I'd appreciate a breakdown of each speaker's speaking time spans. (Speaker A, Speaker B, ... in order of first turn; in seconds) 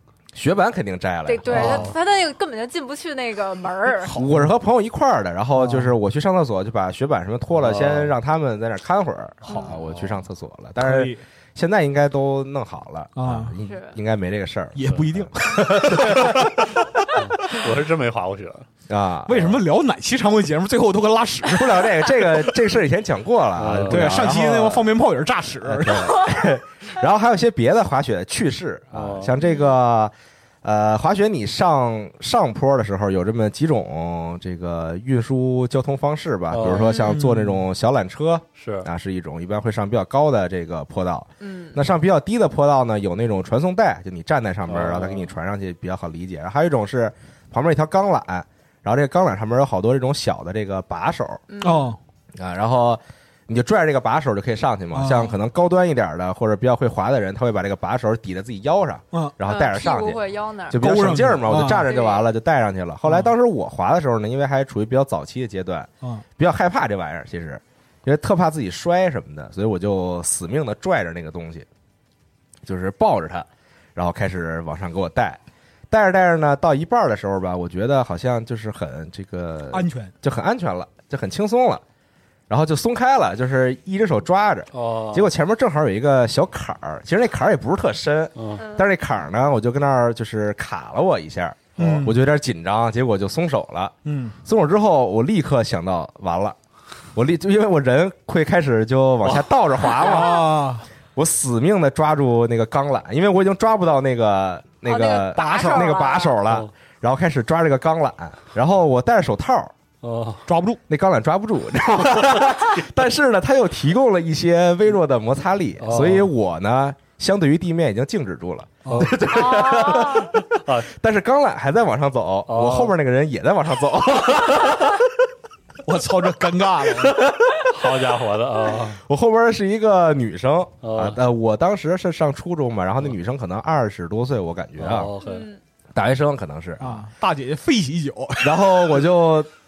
Speaker A: 0.3-1.9, 4.1-16.6, 18.9-19.6, 21.5-24.9, 25.6-51.4, 52.3-71.7, 72.6-81.8, 82.5-93.9, 94.4-96.6, 97.1-100.5, 101.1-109.7, 110.9-125.1, 127.0-127.4, 129.1-135.1, 135.9-137.1, 138.4-139.5
Speaker B: 1.2-4.1, 13.6-13.9, 29.4-29.7, 36.8-37.1, 41.4-41.8, 51.5-51.9, 59.4-60.8, 61.6-62.3, 88.6-88.8, 104.8-106.4, 119.3-120.3, 135.2-135.6
Speaker C: 1.5-1.9, 7.5-8.1, 9.8-10.2, 17.1-18.6, 23.6-24.4, 28.9-29.3, 36.5-37.0, 38.6-38.9, 44.7-45.3, 84.7-85.3, 88.3-88.6, 110.0-110.5, 112.0-112.6, 115.8-116.3, 118.8-119.1, 120.5-120.9, 122.5-122.9, 127.7-129.0, 130.8-131.2, 134.8-135.4
Speaker D: 4.0-4.5, 5.5-5.9, 10.8-11.2, 13.2-13.6, 14.8-17.6, 19.3-22.5, 23.9-26.1, 37.1-37.6, 51.6-52.0, 54.9-55.4, 60.8-61.9, 79.7-80.1, 91.8-92.2, 94.0-94.3, 100.0-100.8, 105.4-105.8, 110.5-110.8, 118.8-119.1, 125.8-127.2, 136.8-138.7